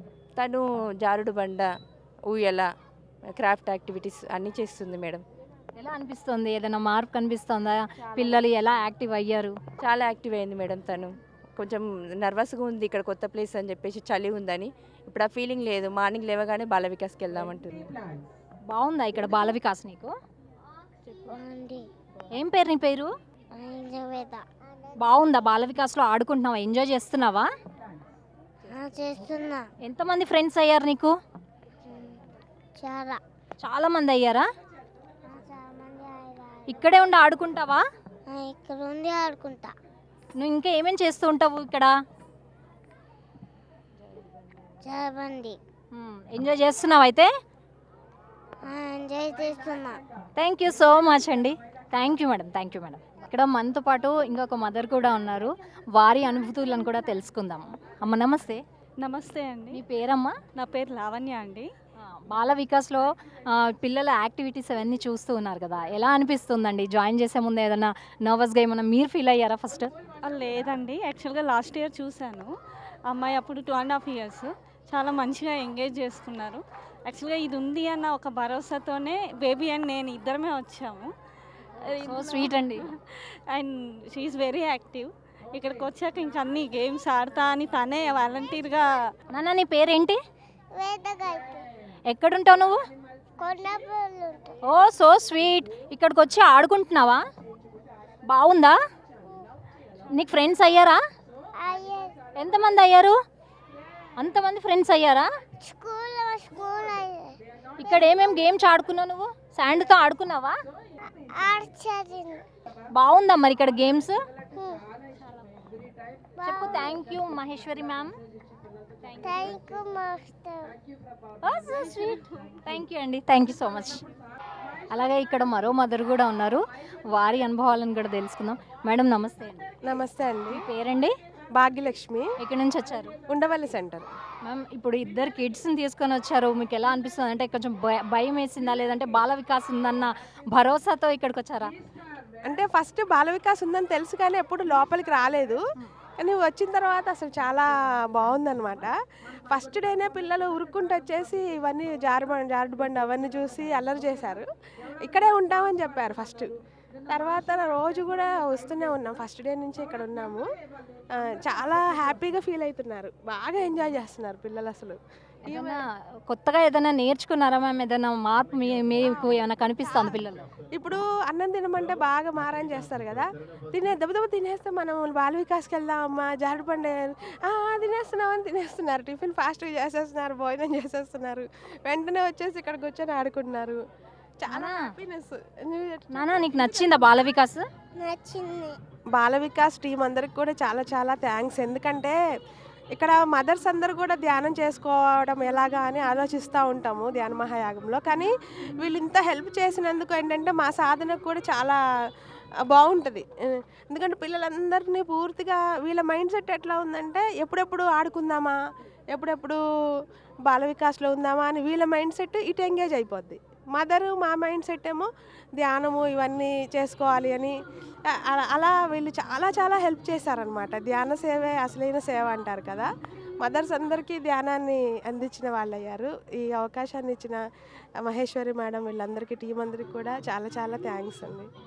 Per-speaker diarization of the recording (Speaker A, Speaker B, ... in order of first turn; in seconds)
Speaker A: 0.4-1.7, 2.3-2.7, 3.3-5.2, 9.8-17.9
Speaker B: 5.8-9.6, 18.7-20.1, 22.4-23.1, 25.0-27.5, 29.8-31.1, 33.6-34.5, 36.7-37.8, 40.4-42.0, 45.9-47.3, 50.4-58.6, 59.7-60.4, 62.0-69.9, 82.0-82.9, 89.3-90.2, 92.1-92.8, 94.7-97.2, 98.3-98.8, 100.2-101.0, 102.4-103.2, 104.2-105.3, 107.8-110.6, 113.0-114.2, 116.5-118.1, 121.4-124.0, 124.9-129.7, 130.5-131.1, 132.4-133.2, 134.4-141.7, 165.5-170.5, 184.5-184.9, 186.1-187.7
Speaker C: 21.3-21.9, 23.6-24.4, 28.7-29.7, 31.9-32.1, 32.8-33.2, 35.3-36.5, 38.3-39.7, 44.8-45.6, 48.7-50.0, 90.8-91.6, 93.4-94.5, 101.6-102.1, 105.6-107.3, 111.4-112.4, 114.5-114.8, 116.4-117.0, 119.2-120.7, 188.0-188.8
Speaker D: 59.0-59.8, 60.6-61.7, 70.2-72.5, 73.1-81.1, 81.8-89.0, 115.2-115.5, 119.0-119.5, 121.8-122.5
Speaker E: 129.9-130.6, 131.6-132.3, 133.3-134.1, 142.5-145.6, 146.2-148.9, 149.5-154.5, 155.0-156.5, 157.1-160.4, 161.2-165.0, 165.5-165.8, 170.8-183.8, 184.4-187.1, 189.2-192.2, 192.9-201.8, 202.7-203.3, 203.9-208.6, 209.1-209.6, 210.5-217.6, 218.1-222.9, 223.4-227.4, 228.0-231.5